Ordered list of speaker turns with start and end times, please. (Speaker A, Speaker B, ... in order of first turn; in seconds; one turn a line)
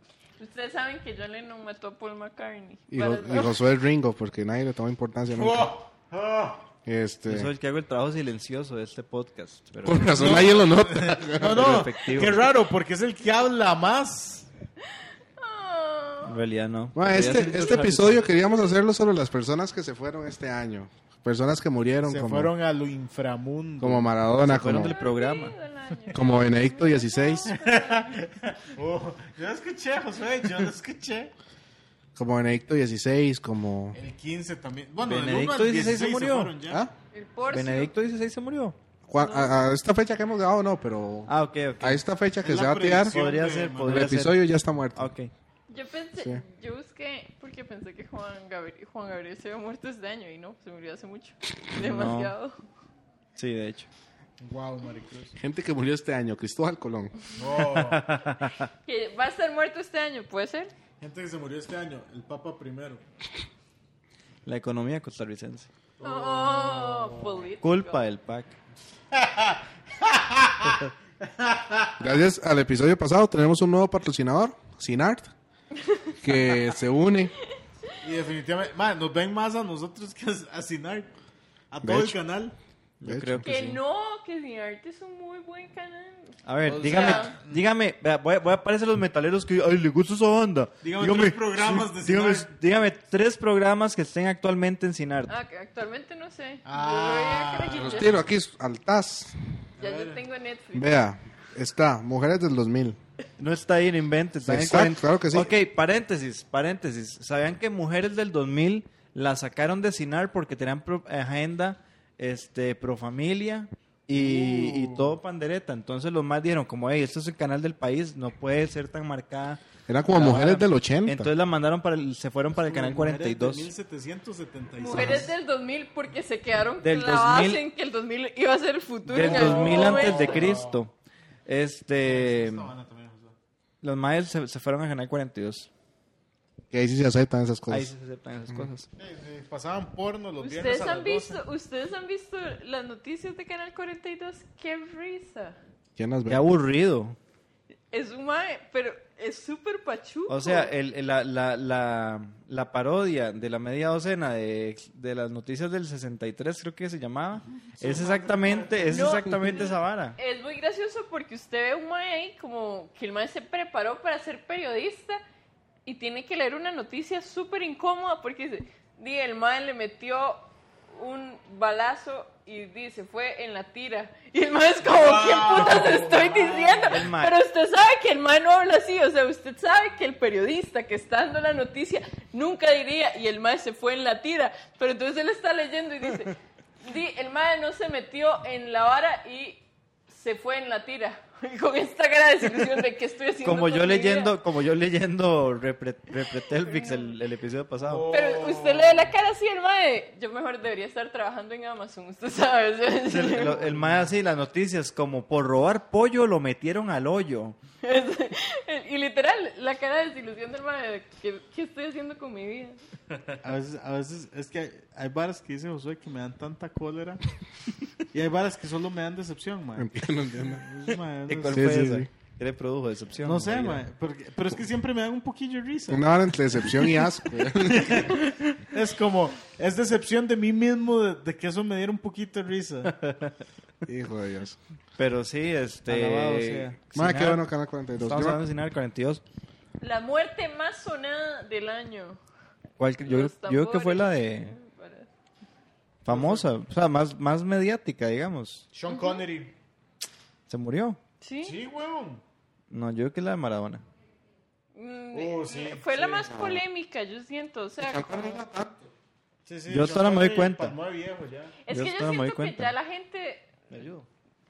Speaker A: 0.4-3.6
Speaker B: 2.9-5.7
Speaker C: 5.3-6.6
Speaker B: 6.8-7.5
Speaker D: 7.3-10.6
Speaker B: 9.8-11.9
Speaker C: 10.1-14.5
Speaker D: 11.4-12.4
Speaker A: 15.4-16.4
Speaker D: 16.2-18.2
Speaker B: 16.9-22.5
Speaker C: 22.0-24.1
Speaker B: 23.8-24.9
Speaker D: 24.4-25.5
Speaker A: 24.8-28.2
Speaker B: 26.1-27.5
Speaker C: 27.4-31.3
Speaker B: 32.1-34.0
Speaker C: 33.9-36.8
Speaker D: 35.0-36.5
Speaker B: 36.7-36.9
Speaker A: 37.1-37.9
Speaker D: 37.5-38.8
Speaker B: 39.1-43.2
Speaker A: 39.2-39.6
Speaker D: 41.3-42.0
Speaker C: 42.4-44.1
Speaker D: 43.1-44.4
Speaker B: 43.9-45.1
Speaker D: 44.9-45.3
Speaker A: 45.7-52.6
Speaker B: 46.2-46.4
Speaker D: 51.7-52.3
Speaker D: 53.4-53.9
Speaker C: 54.4-55.4
Speaker B: 55.4-57.2
Speaker C: 57.3-58.0
Speaker D: 57.7-58.7
Speaker A: 58.8-60.7
Speaker C: 61.0-63.0
Speaker D: 64.4-65.7
Speaker C: 66.0-67.4
Speaker A: 66.0-68.0
Speaker D: 67.6-68.6
Speaker C: 69.1-72.1
Speaker B: 72.0-75.3
Speaker A: 75.8-76.2
Speaker B: 76.2-77.3
Speaker C: 78.0-81.1
Speaker C: 81.7-82.5
Speaker B: 81.8-82.2
Speaker D: 83.0-83.8
Speaker B: 83.0-83.6
Speaker A: 83.4-87.3
Speaker D: 86.4-95.3
Speaker C: 86.6-87.6
Speaker C: 90.8-92.5
Speaker A: 95.3-98.1
Speaker C: 96.7-98.1
Speaker B: 97.7-99.3
Speaker C: 99.8-100.2
Speaker A: 99.8-100.9
Speaker B: 100.7-103.0
Speaker D: 103.4-119.6
Speaker B: 104.4-105.5
Speaker C: 114.1-115.2
Speaker B: 119.9-121.3
Speaker D: 120.1-123.7
Speaker C: 122.6-125.3
Speaker A: 124.8-130.5
Speaker D: 126.8-127.6
Speaker D: 129.1-130.9
Speaker C: 129.2-130.8
Speaker D: 131.4-132.7
Speaker C: 132.0-133.3
Speaker D: 133.8-135.7
Speaker B: 136.7-137.9
Speaker D: 137.7-138.9
Speaker C: 139.0-141.4
Speaker A: 140.4-145.6
Speaker B: 145.9-146.5
Speaker D: 146.3-147.2
Speaker A: 147.9-150.7
Speaker D: 150.3-160.2
Speaker C: 157.8-159.1
Speaker A: 158.9-165.2
Speaker A: 165.8-194.3
Speaker C: 174.8-177.1
Speaker D: 176.9-177.3
Speaker D: 193.4-198.1
Speaker A: 196.6-197.2
Speaker C: 197.8-199.1
Speaker A: 198.1-203.6
Speaker D: 203.1-207.6
Speaker C: 203.3-204.1
Speaker A: 207.8-212.8
Speaker C: 213.4-217.2
Speaker C: 218.1-221.8
Speaker B: 219.8-220.7
Speaker D: 221.3-223.8
Speaker B: 221.5-222.1
Speaker C: 223.2-226.1
Speaker B: 225.9-228.2
Speaker C: 226.6-233.1
Speaker B: 233.8-234.6
Speaker D: 235.0-237.4
Speaker C: 235.9-236.8
Speaker B: 236.9-238.4
Speaker D: 238.0-239.2
Speaker A: 239.8-242.2
Speaker D: 242.8-244.6
Speaker A: 243.0-245.1
Speaker D: 246.0-248.7
Speaker C: 246.1-246.5
Speaker C: 248.7-249.5
Speaker A: 248.9-249.2
Speaker D: 250.5-251.0
Speaker A: 251.2-251.6
Speaker C: 251.4-252.2
Speaker D: 252.7-253.8
Speaker A: 254.8-258.4
Speaker C: 255.1-256.4
Speaker B: 256.3-256.6
Speaker B: 257.8-258.9
Speaker C: 259.4-261.6
Speaker D: 259.7-260.8
Speaker A: 261.6-263.5
Speaker D: 261.7-262.7
Speaker D: 263.7-264.1